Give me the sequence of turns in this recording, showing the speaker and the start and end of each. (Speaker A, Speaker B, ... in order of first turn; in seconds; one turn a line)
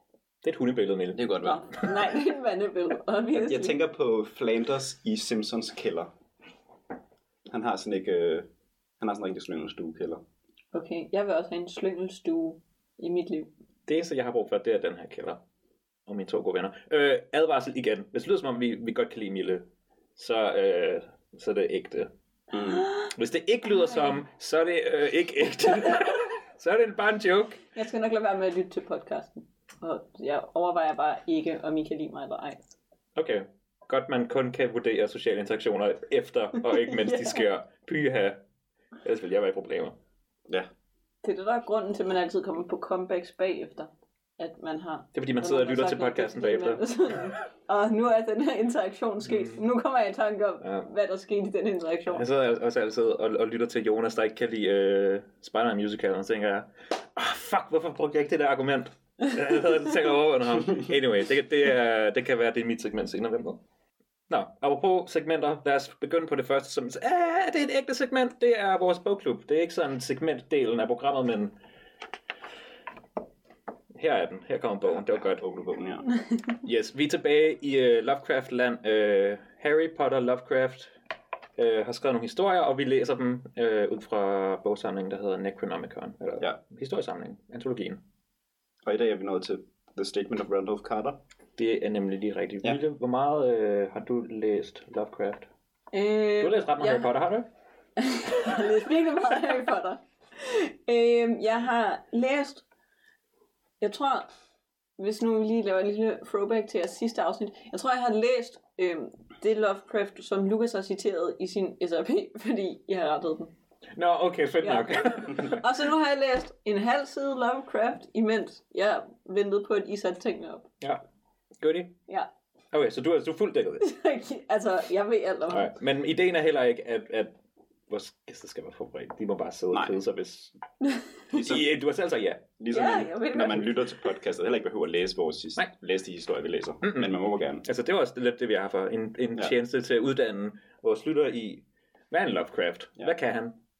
Speaker A: 0.4-1.9
Speaker B: 1.1-1.6
Speaker C: 1.4-3.7
Speaker B: 3.3-6.1
Speaker B: 7.5-8.5
Speaker B: 9.0-10.2
Speaker C: 10.7-13.5
Speaker A: 13.9-15.4
Speaker A: 16.1-19.6
Speaker A: 20.1-22.1
Speaker B: 22.5-22.9
Speaker A: 23.1-27.6
Speaker C: 27.7-32.6
Speaker A: 33.1-38.4
Speaker C: 36.7-37.4
Speaker A: 39.0-39.9
Speaker C: 41.2-52.2
Speaker A: 45.1-46.8
Speaker A: 49.2-49.6
Speaker A: 50.6-50.9
Speaker A: 52.1-63.6
Speaker A: 64.3-71.5
Speaker A: 74.0-75.4
Speaker B: 74.9-76.0
Speaker A: 76.6-80.9
Speaker A: 81.6-88.0
Speaker B: 88.8-91.2
Speaker A: 91.6-95.5
Speaker C: 95.9-97.1
Speaker A: 96.4-97.5
Speaker C: 98.0-102.6
Speaker C: 103.8-104.3
Speaker C: 105.0-113.5
Speaker A: 114.0-115.6
Speaker C: 114.6-120.7
Speaker A: 121.6-121.9
Speaker A: 122.7-123.8
Speaker C: 123.8-125.7
Speaker A: 125.5-127.3
Speaker A: 127.9-130.6
Speaker B: 129.7-130.0
Speaker A: 131.3-132.4
Speaker B: 131.3-131.7
Speaker B: 132.6-137.6
Speaker C: 132.7-134.1
Speaker A: 136.8-143.6